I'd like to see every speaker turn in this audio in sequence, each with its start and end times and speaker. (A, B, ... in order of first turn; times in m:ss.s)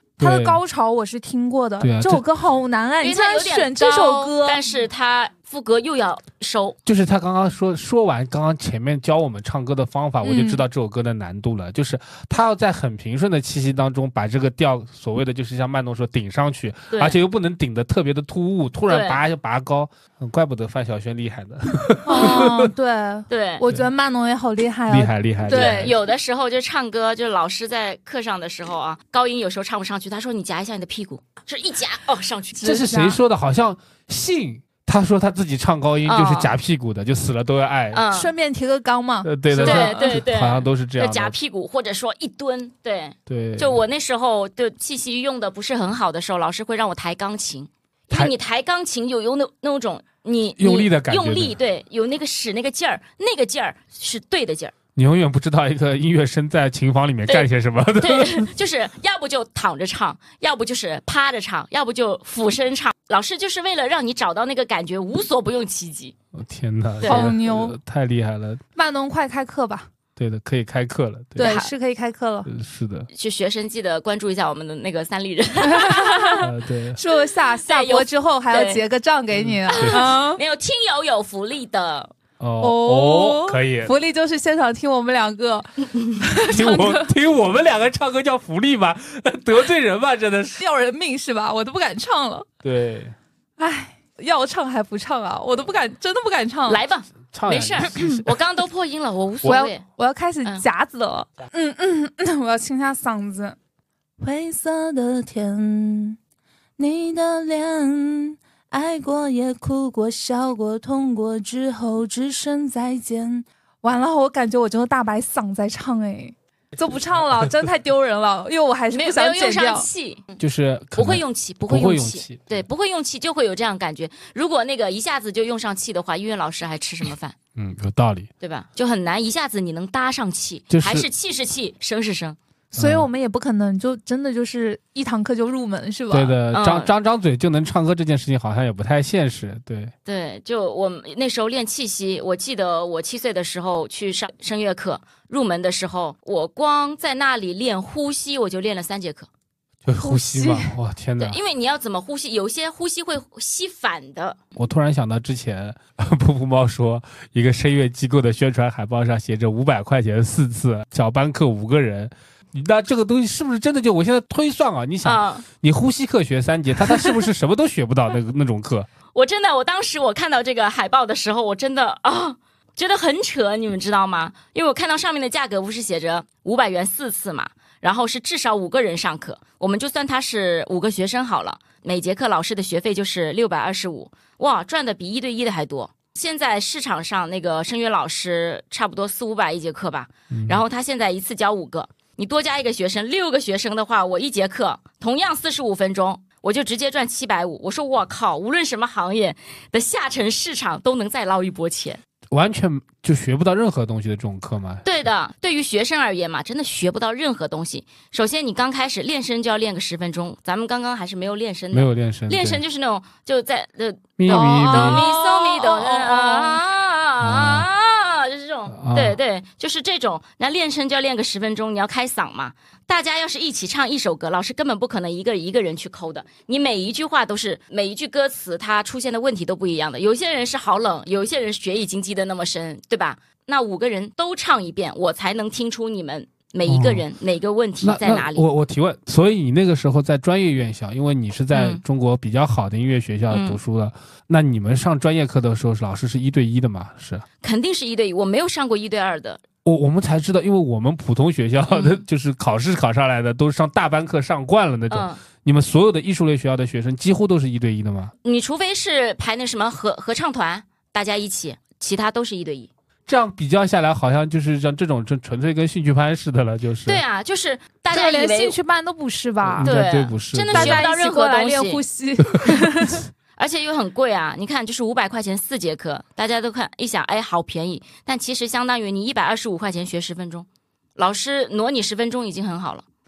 0:00.2-0:00.6 A
0:00.2-0:04.6 B
0:01.8-0:02.2 A
0:03.0-0:06.8 C
0:06.9-0:22.7 A
0:10.2-0:10.6 B
0:16.9-0:17.2 C
0:18.9-0:19.2 C
0:22.1-0:25.9 B
0:22.1-0:22.5 C
0:23.3-0:23.6 C
0:24.9-0:26.0 A
0:25.5-0:32.7 C
0:32.6-0:33.2 B
0:32.6-0:38.0 A
0:36.0-0:36.6 C
0:37.9-0:38.3 C
0:38.1-0:40.2 B
0:39.2-0:41.4 A
0:39.6-0:54.7 C
0:43.3-0:43.8 A
0:50.6-0:51.6 A
0:55.0-0:58.5 A
0:57.3-1:06.2 C
1:06.3-1:08.6 A
1:07.0-1:07.3 C
1:07.0-1:07.8 B
1:08.8-1:09.9 B
1:10.2-1:11.6 A
1:11.4-1:12.5 B
1:11.4-1:11.7 C
1:12.5-1:13.1 A
1:13.1-1:16.5 C
1:15.7-1:16.4 B
1:16.4-1:17.0 A
1:17.0-1:20.4 B
1:17.6-1:18.8 C
1:19.3-1:20.0 A
1:19.7-1:22.1 C
1:22.4-1:23.9 A
1:22.6-1:27.1 B
1:26.5-1:30.6 A
1:30.6-1:32.5 B
1:32.6-1:33.2 A
1:33.6-1:36.8 B
1:36.7-1:39.8 C
1:37.3-1:38.3 A
1:39.4-1:43.6 B
1:44.2-1:46.2 B
1:46.8-1:59.9 B
1:58.9-2:00.3 C
2:00.4-2:02.6 A
2:01.0-2:07.4 C
2:07.6-2:08.3 A
2:08.4-2:12.4 C
2:10.7-2:11.1 A
2:12.7-2:16.4 B
2:12.8-2:13.1 A
2:16.1-2:19.9 A
2:16.5-2:16.9 C
2:20.1-2:29.3 C
2:29.8-2:31.4 A
2:30.0-2:30.7 B
2:31.2-2:34.4 C
2:34.6-2:48.9 A
2:45.0-2:45.5 C
2:49.1-3:22.0 C
3:10.3-3:10.6 A
3:22.3-3:24.8 A
3:24.8-3:58.5 C
3:31.7-3:32.6 A
3:34.2-3:35.0 A
3:34.3-3:36.6 B
3:37.2-3:37.7 A
3:38.7-3:39.2 A
3:56.6-3:57.0 A
3:57.8-4:07.2 A
4:01.5-4:01.8 C
4:03.3-4:03.6 C
4:07.4-4:09.4 C
4:09.6-4:18.1 A
4:11.7-4:12.0 C
4:14.9-4:15.2 C
4:18.2-4:22.7 C
4:23.1-4:27.0 A
4:26.9-4:28.6 C
4:27.9-4:29.7 B
4:29.4-4:30.8 A
4:29.6-4:31.8 C
4:30.5-4:33.0 B
4:33.4-4:42.8 C